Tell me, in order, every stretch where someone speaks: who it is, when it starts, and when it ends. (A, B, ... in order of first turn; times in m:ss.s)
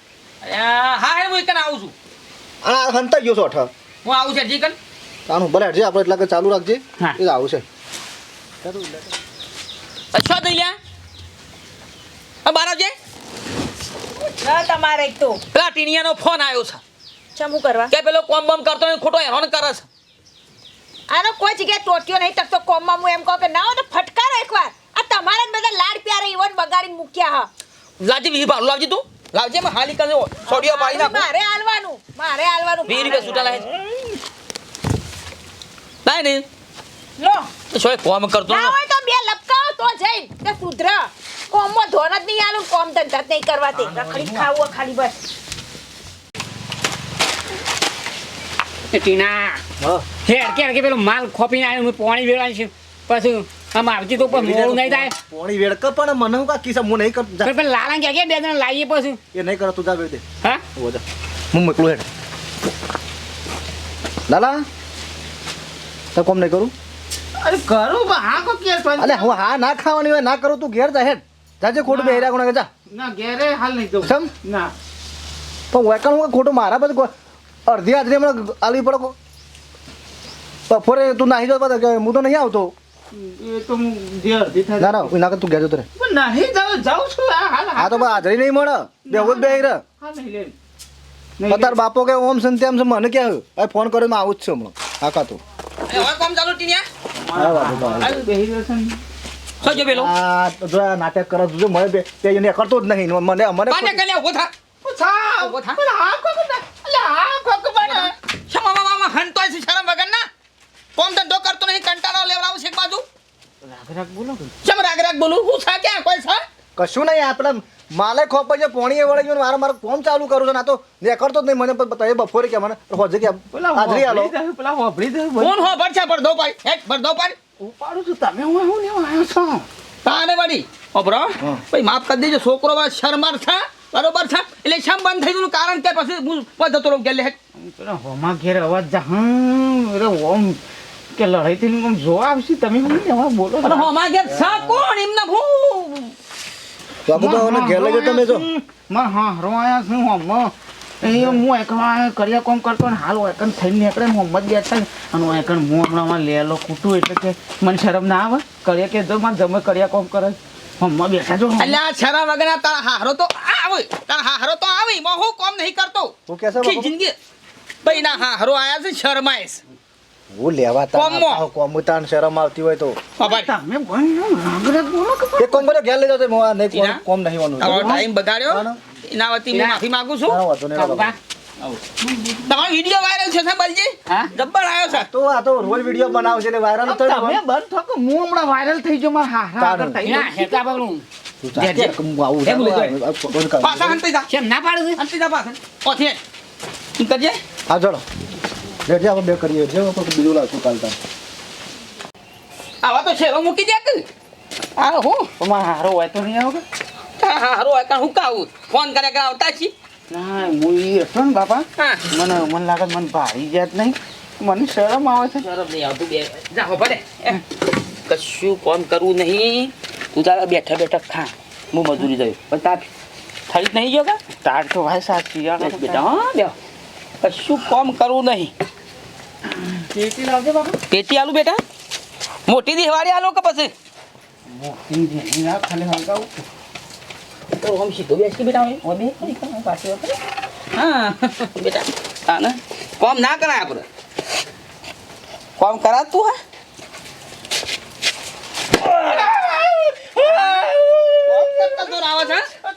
0:00.4-0:01.9 A
0:02.6-0:03.7 B
0:04.0-0:04.8 A
0:05.3-0:07.6 B
0:08.6-0:09.1 B
0:10.1-0:10.7 A
0:12.4-0:12.9 A
0:14.2-0:15.4 C
0:15.5-0:16.8 A
0:17.3-0:17.9 C
0:17.9-0:19.8 A
0:21.1-0:27.5 C
0:28.0-0:31.2 A
0:30.5-0:33.6 C
0:32.9-0:33.8 A
0:36.0-0:36.4 A
0:37.2-0:37.5 C
0:37.7-0:38.8 A
0:38.5-0:45.2 C
0:43.8-0:44.3 D
0:48.9-0:49.6 E
0:49.8-0:50.0 B
0:50.2-0:55.2 E
0:54.2-0:57.5 B
0:57.4-0:59.2 E
0:59.3-1:00.2 B
1:00.8-1:02.0 B
1:04.3-1:04.6 B
1:06.1-1:06.7 B
1:07.4-1:09.4 D
1:09.0-1:12.7 B
1:11.9-1:12.3 D
1:12.9-1:14.7 D
1:14.0-1:14.3 B
1:15.7-1:17.1 B
1:17.7-1:19.1 B
1:20.7-1:22.7 B
1:23.1-1:25.1 D
1:24.8-1:25.9 B
1:26.0-1:28.2 D
1:27.8-1:29.8 B
1:29.1-1:30.5 D
1:31.4-1:31.8 D
1:31.5-1:35.4 B
1:35.9-1:36.8 A
1:37.2-1:39.0 D
1:37.3-1:38.2 B
1:39.6-1:40.1 A
1:39.6-1:44.0 B
1:43.7-1:44.5 A
1:44.8-1:48.1 D
1:45.4-1:45.8 A
1:47.8-1:50.2 A
1:51.0-1:53.0 A
1:53.6-1:54.5 D
1:54.6-1:56.4 A
1:56.8-2:04.3 B
2:03.5-2:05.7 D
2:05.4-2:07.4 A
2:07.6-2:09.6 D
2:10.0-2:17.3 A
2:17.6-2:20.6 D
2:21.1-2:23.9 D
2:23.6-2:26.1 A
2:27.0-2:28.5 B
2:27.1-2:41.8 D
2:41.6-2:47.1 A
2:46.3-2:46.9 B
2:47.8-2:49.6 A
2:50.3-2:53.0 B
2:50.9-2:51.4 A
2:53.2-2:53.5 A
2:53.2-2:55.7 D
2:55.4-2:58.8 B
2:56.7-2:57.0 A
2:57.6-3:00.4 A
2:57.6-2:58.0 D
2:59.5-2:59.8 E
3:00.3-3:01.1 B
3:00.8-3:01.2 E
3:02.0-3:02.4 D
3:02.4-3:05.1 A
3:04.9-3:07.4 B
3:06.8-3:10.7 D
3:09.6-3:10.1 B
3:10.0-3:11.0 E
3:11.4-3:14.0 B
3:11.6-3:12.9 A
3:13.6-3:14.3 A
3:14.3-3:15.0 E
3:15.0-3:16.2 A
3:17.0-3:17.4 A
3:17.7-3:18.0 B
3:18.8-3:21.0 B
3:22.8-3:24.0 A
3:24.8-3:25.3 A
3:25.4-3:26.6 D
3:27.2-3:29.7 A
3:30.1-3:35.5 D
3:31.8-3:32.0 A
3:35.4-3:37.4 A
3:38.1-3:42.9 A
3:43.5-3:44.2 A
3:44.4-3:46.0 D
3:45.6-3:46.5 A
3:47.2-3:48.5 A
3:49.5-3:50.8 D
3:50.9-3:51.6 A
3:52.5-3:53.7 A
3:54.5-3:56.3 D
3:57.5-4:00.2 A
4:00.7-4:03.8 A
4:05.6-4:06.3 A
4:08.8-4:12.4 A